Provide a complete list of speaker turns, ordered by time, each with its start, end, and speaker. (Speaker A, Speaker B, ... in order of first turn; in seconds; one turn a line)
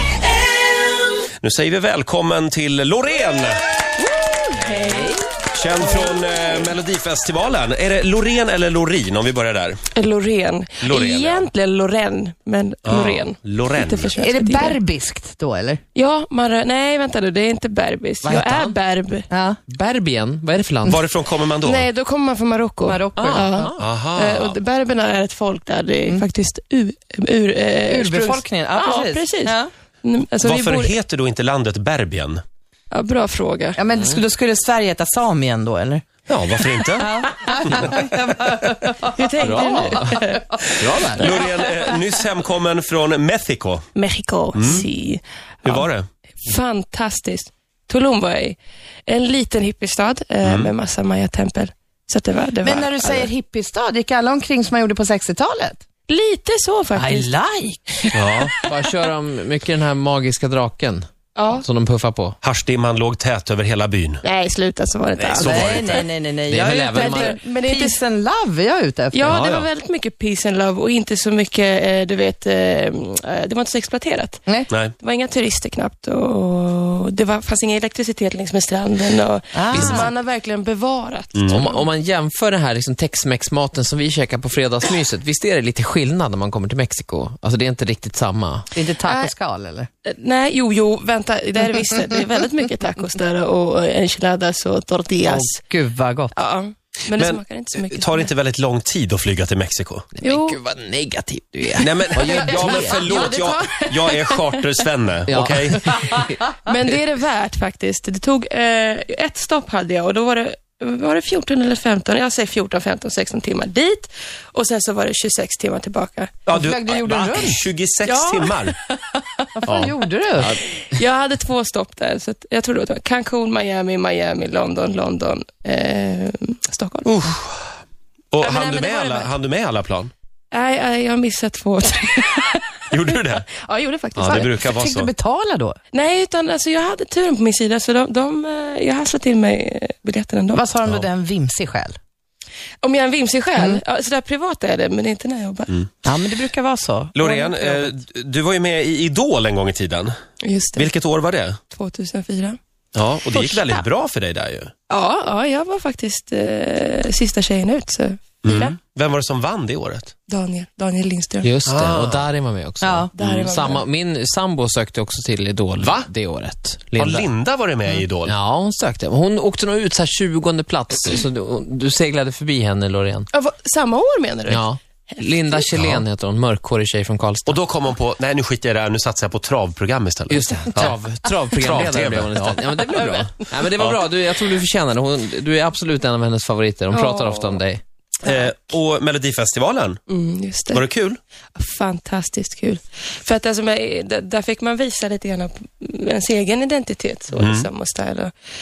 Speaker A: 1.4-3.6
Speaker B: 4.0-6.7
Speaker C: 4.8-5.0
Speaker A: 5.5-9.8
Speaker B: 9.9-14.8
Speaker A: 10.8-11.5
Speaker A: 12.8-14.1
Speaker D: 14.1-15.8
Speaker B: 15.9-19.3
Speaker C: 18.2-18.8
Speaker D: 19.3-19.6
Speaker C: 19.7-21.0
Speaker A: 20.9-21.9
Speaker B: 21.5-30.9
Speaker D: 22.8-23.7
Speaker C: 23.1-24.0
Speaker A: 23.8-24.6
Speaker D: 27.8-29.7
Speaker A: 30.4-32.4
Speaker B: 32.9-33.8
Speaker D: 33.7-36.0
Speaker C: 33.9-34.2
Speaker A: 36.3-37.1
Speaker D: 36.7-41.2
Speaker B: 39.1-40.4
Speaker A: 39.5-40.0
Speaker C: 40.8-41.2
Speaker A: 41.1-43.9
Speaker B: 41.2-41.4
Speaker B: 44.0-45.9
Speaker A: 44.5-44.9
Speaker A: 45.6-46.1
Speaker B: 46.4-53.3
Speaker A: 50.4-50.7
Speaker D: 52.6-55.8
Speaker B: 56.1-57.3
Speaker D: 56.9-58.6
Speaker A: 58.1-58.5
Speaker C: 58.7-61.1
Speaker B: 61.4-61.6
Speaker C: 61.6-62.4
Speaker A: 62.4-64.2
Speaker B: 64.2-66.0
Speaker A: 65.2-66.0
Speaker D: 65.3-69.4
Speaker C: 65.5-67.4
Speaker B: 66.8-68.0
Speaker B: 69.1-81.8
Speaker A: 69.2-69.7
Speaker D: 74.5-74.8
Speaker A: 74.7-74.9
Speaker D: 79.5-80.1
Speaker C: 79.7-80.1
Speaker A: 81.3-81.7
Speaker C: 81.5-88.7
Speaker D: 88.7-89.9
Speaker B: 88.9-89.3
Speaker B: 90.0-95.6
Speaker D: 91.6-92.4
Speaker D: 95.2-96.3
Speaker B: 96.3-98.3
Speaker A: 97.1-100.1
Speaker C: 100.2-103.2
Speaker B: 100.2-100.6
Speaker A: 101.8-105.8
Speaker B: 102.2-104.9
Speaker C: 105.3-106.3
Speaker B: 106.7-116.5
Speaker A: 116.5-118.7
Speaker D: 116.5-117.6
Speaker B: 118.0-120.1
Speaker D: 119.5-120.5
Speaker A: 119.7-119.9
Speaker B: 120.6-127.2
Speaker A: 127.0-127.7
Speaker A: 128.3-130.1
Speaker B: 128.4-129.3
Speaker B: 130.5-134.8
Speaker A: 132.9-133.4
Speaker A: 134.1-135.1
Speaker D: 134.2-135.8
Speaker B: 135.9-140.7
Speaker D: 140.5-142.0
Speaker B: 142.8-145.8
Speaker D: 143.6-143.8
Speaker D: 146.0-147.9
Speaker A: 147.1-150.1
Speaker B: 150.4-151.0
Speaker A: 150.7-151.6
Speaker B: 151.7-152.6
Speaker A: 152.9-154.7
Speaker D: 153.3-153.8
Speaker B: 154.9-158.8
Speaker A: 158.4-160.1
Speaker B: 160.3-161.5
Speaker C: 161.4-167.3
Speaker A: 161.7-162.2
Speaker D: 162.8-163.1
Speaker B: 163.1-163.8
Speaker A: 165.8-166.1
Speaker A: 166.9-168.3
Speaker C: 168.2-173.3
Speaker B: 173.3-175.7
Speaker C: 174.5-177.6
Speaker A: 175.7-176.0
Speaker A: 177.5-180.9
Speaker C: 180.3-187.8
Speaker A: 181.5-182.6
Speaker B: 186.9-187.6
Speaker A: 188.2-190.0
Speaker B: 188.2-188.5
Speaker B: 190.1-190.8
Speaker A: 190.7-191.2
Speaker B: 191.6-198.3
Speaker A: 197.4-197.7